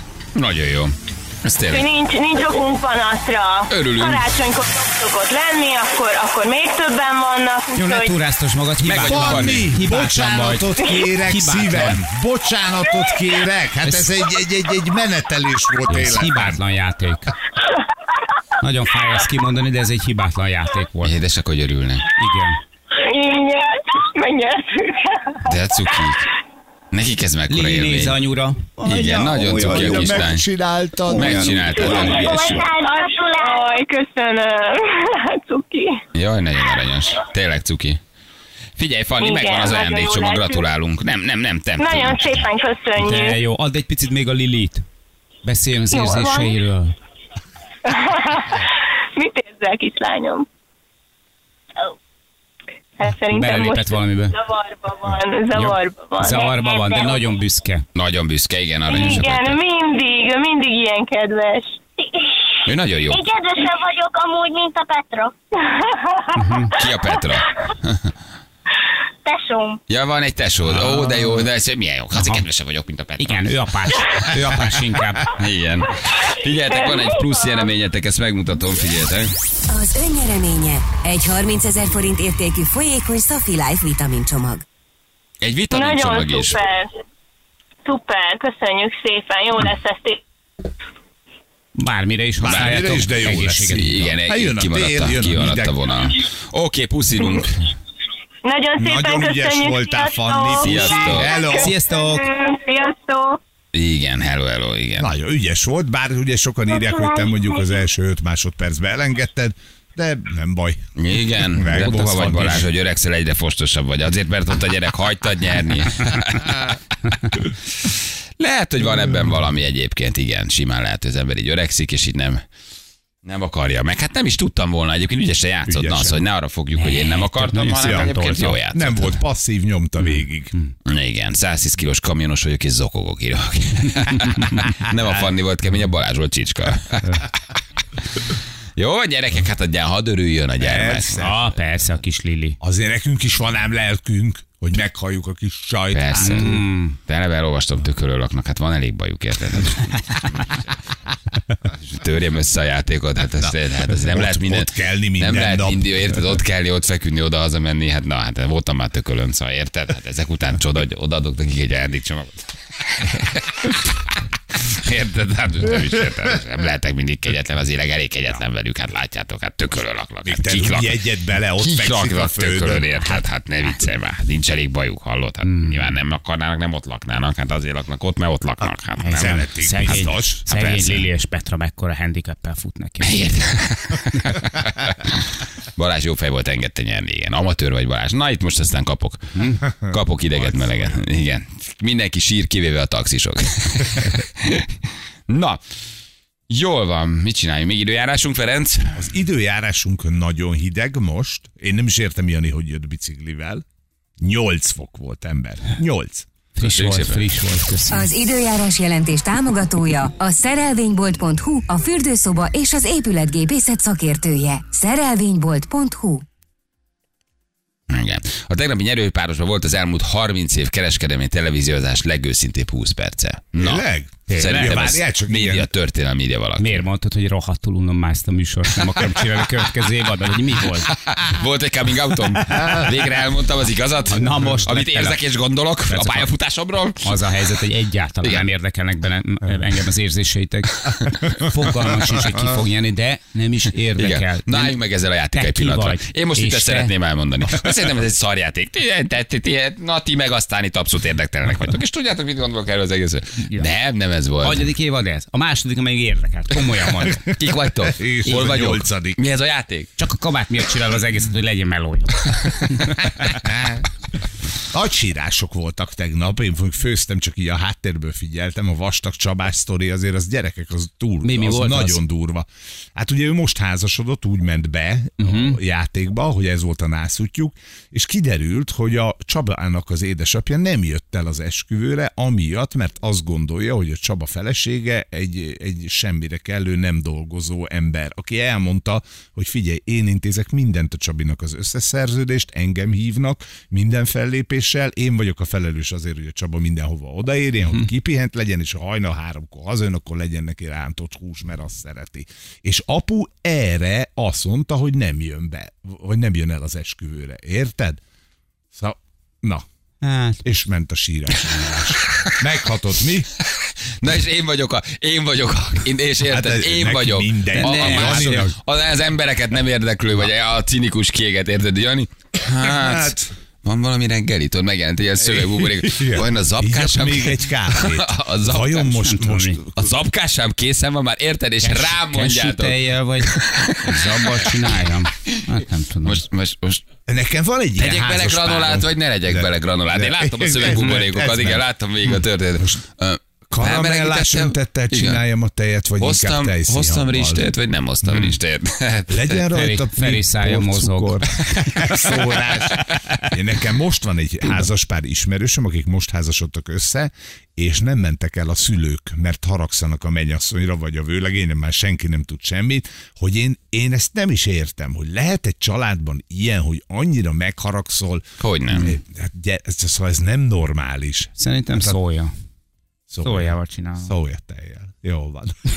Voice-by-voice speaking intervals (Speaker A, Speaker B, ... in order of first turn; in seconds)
Speaker A: 0.3-1.9, 3.7-4.3, 8.8-9.7, 21.0-22.1, 25.4-26.3, 26.9-28.2, 28.9-30.4, 31.1-32.6, 36.1-38.0, 38.8-42.5, 58.0-59.6, 62.7-63.3, 66.7-68.1, 69.9-74.6, 75.2-79.3, 85.4-86.6, 92.5-97.7, 100.6-101.3, 103.7-105.1, 111.0-122.4, 123.2-129.2, 130.9-137.3, 138.3-141.3, 145.9-150.7, 151.7-171.0, 171.6-179.9, 180.5-181.1, 183.0-194.7, 195.3-195.6, 196.5-199.0, 206.6-207.3, 217.9-223.8, 224.3-226.8, 230.8-237.2, 240.8-241.3, 244.0-254.7, 257.3-259.9, 312.1-312.4, 313.4-329.1, 329.8-335.4, 336.0-336.8, 337.8-345.2, 346.0-349.4, 368.4-368.9
Speaker B: 1.7-8.2, 22.9-25.4, 32.8-36.0, 39.2-40.6, 41.8-43.4, 45.9-46.5, 47.9-50.5, 53.0-56.5, 58.9-61.8, 65.7-66.3, 76.7-77.6, 85.7-86.9, 87.8-90.2, 98.4-103.4
Speaker C: 7.8-12.0, 15.9-17.4, 18.6-21.1, 22.2-22.6, 27.5-30.3, 31.1-31.9, 43.0-44.9, 45.5-47.0, 53.3-54.4, 55.5-57.9, 58.9-59.2, 66.4-66.7, 70.7-71.5, 72.2-72.5, 73.2-75.3, 91.8-94.2, 101.5-102.3, 126.8-128.6, 130.0-130.7, 134.1-134.6, 141.2-142.6, 146.2-147.0, 173.0-173.8, 175.4-175.9, 179.0-183.2, 189.3-189.6, 206.6-208.1, 224.3-224.8, 226.6-230.9, 234.1-235.2, 235.9-236.3, 237.0-244.8, 245.3-246.9, 254.4-257.3, 260.0-263.0, 271.2-272.0, 275.2-275.6, 310.0-310.4, 317.6-318.5, 329.0-329.6, 331.6-336.2, 349.5-352.1, 371.4-372.3, 373.2-374.1
Speaker D: 9.0-16.6, 28.9-32.6, 92.4-95.9, 98.8-101.8, 105.0-110.8, 111.4-112.7, 125.7-126.2, 127.7-130.5, 140.6-141.4, 142.6-146.6, 153.4-156.1, 170.2-172.9, 178.6-180.4, 190.4-190.9, 198.9-203.6, 204.2-206.3, 223.6-225.7, 232.6-232.9, 257.8-259.2, 263.3-263.8, 264.7-308.0, 308.7-309.6, 310.4-313.3, 316.3-318.6, 322.6-323.2, 325.2-329.9, 337.1-341.6, 343.5-347.5, 349.1-372.0, 373.1-375.6
Speaker E: 31.8-33.8, 56.3-57.2, 62.0-62.3, 63.1-65.3, 69.2-69.8, 106.7-107.7
Speaker F: 79.7-84.6, 207.9-216.2